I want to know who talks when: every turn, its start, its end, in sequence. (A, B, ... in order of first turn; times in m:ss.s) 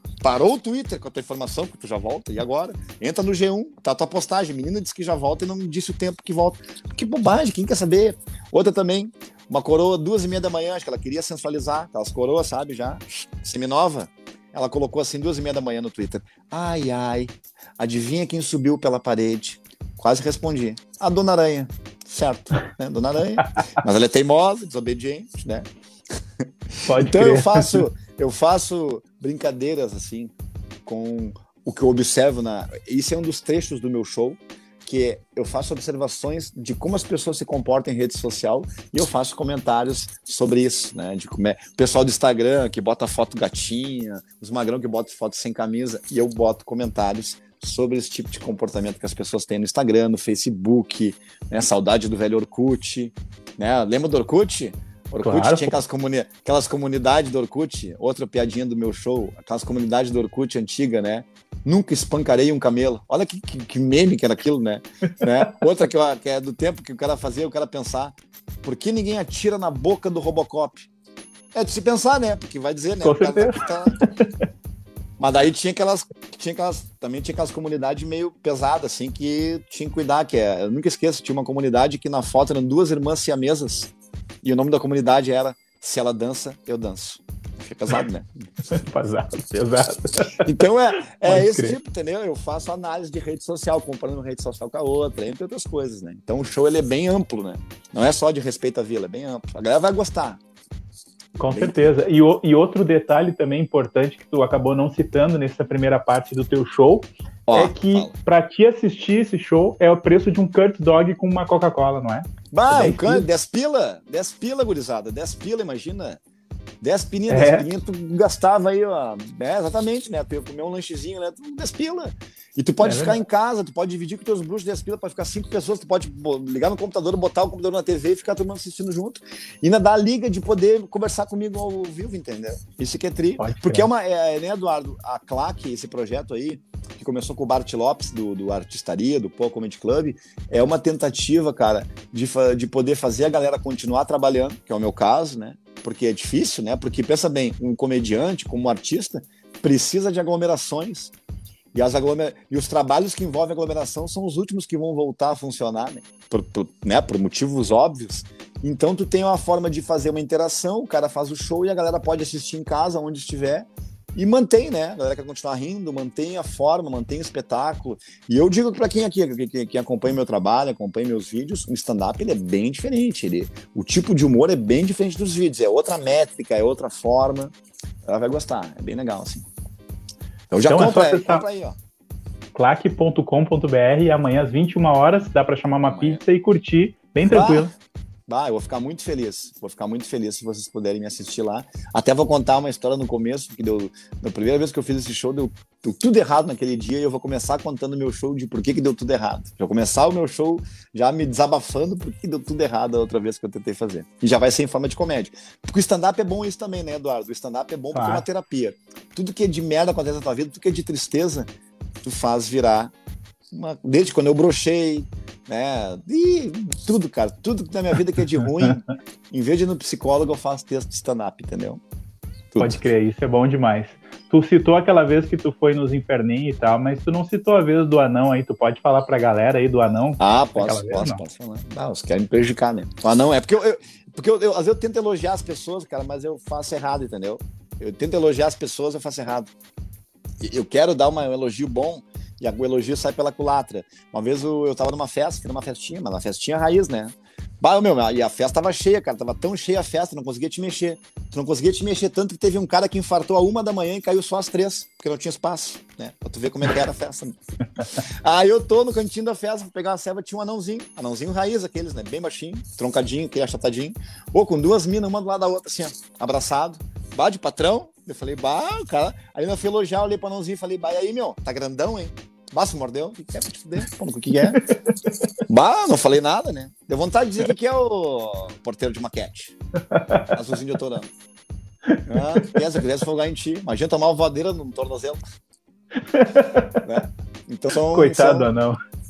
0:00.2-0:25.7 A
0:26.4-0:30.3 A
0:26.8-0:27.8 B
0:30.9-1:10.9 A
0:55.2-0:55.8 B
1:11.5-1:14.0 A
1:13.0-1:14.4 B
1:15.2-1:23.9 A
1:24.4-1:28.3 A
1:28.7-1:30.5 B
1:30.4-1:40.4 A
1:31.2-1:31.8 B
1:41.4-1:53.3 B
1:41.4-1:41.9 A
1:47.5-1:48.1 A
1:52.5-1:56.2 A
1:56.8-2:31.1 A
1:57.3-1:57.7 B
2:02.8-2:03.2 B
2:13.4-2:13.9 B
2:31.7-2:57.5 A
2:58.0-2:59.5 A
3:00.5-3:01.8 A
3:00.7-3:01.4 B
3:02.6-3:07.7 B
3:05.8-3:06.2 A
3:07.3-3:07.7 A
3:08.3-3:31.5 A
3:27.9-3:28.3 B
3:32.0-3:32.9 A
3:33.5-3:41.8 A
3:42.5-3:42.8 A
3:42.6-3:51.2 B
3:50.2-3:59.5 A
4:00.4-4:17.4 A
4:18.0-4:34.7 A
4:34.6-4:35.3 B
4:35.5-4:39.6 A
4:39.9-4:40.4 B
4:40.3-4:41.1 A
4:41.9-4:42.6 B
4:42.1-4:45.2 A
4:46.0-4:46.9 B
4:46.8-4:48.5 A
4:47.9-4:48.8 B